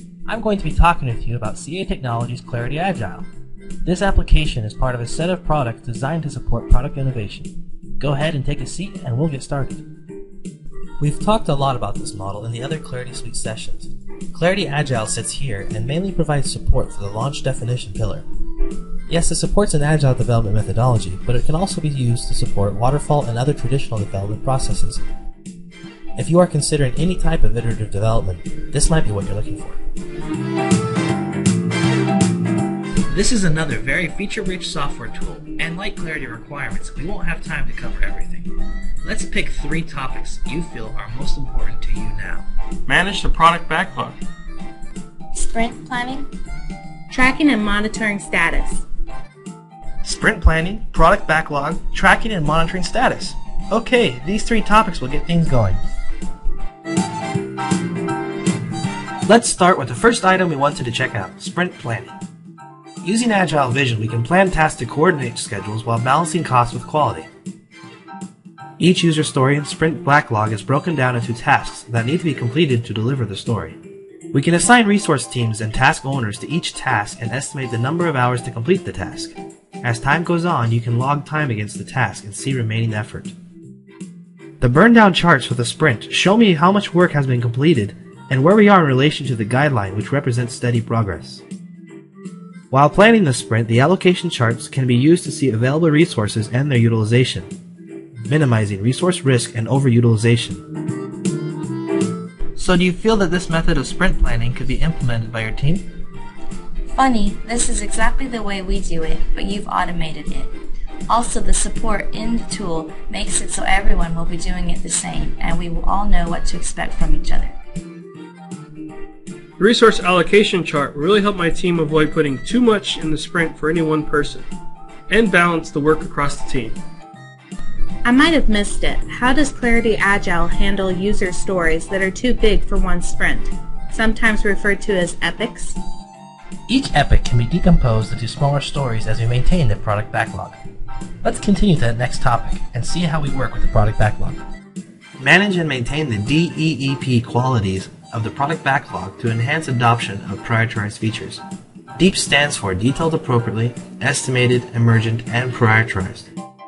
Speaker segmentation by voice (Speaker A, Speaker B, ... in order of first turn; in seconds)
Speaker A: 0.2-3.2, 3.8-9.8, 11.0-18.2, 19.1-25.0, 26.2-29.8, 33.1-38.5, 39.0-42.4, 50.0-55.8, 59.2-62.1, 63.0-67.3, 68.8-73.8, 74.3-83.3, 84.6-91.4, 92.7-97.5, 98.2-100.6, 102.5-105.9, 136.7-140.6, 141.2-144.4, 145.2-151.4, 152.0-156.3
Speaker B: 42.9-44.2, 119.6-124.5, 125.1-126.8
Speaker C: 45.3-46.3, 106.9-110.5, 111.1-117.5
Speaker D: 47.1-48.8, 128.0-135.7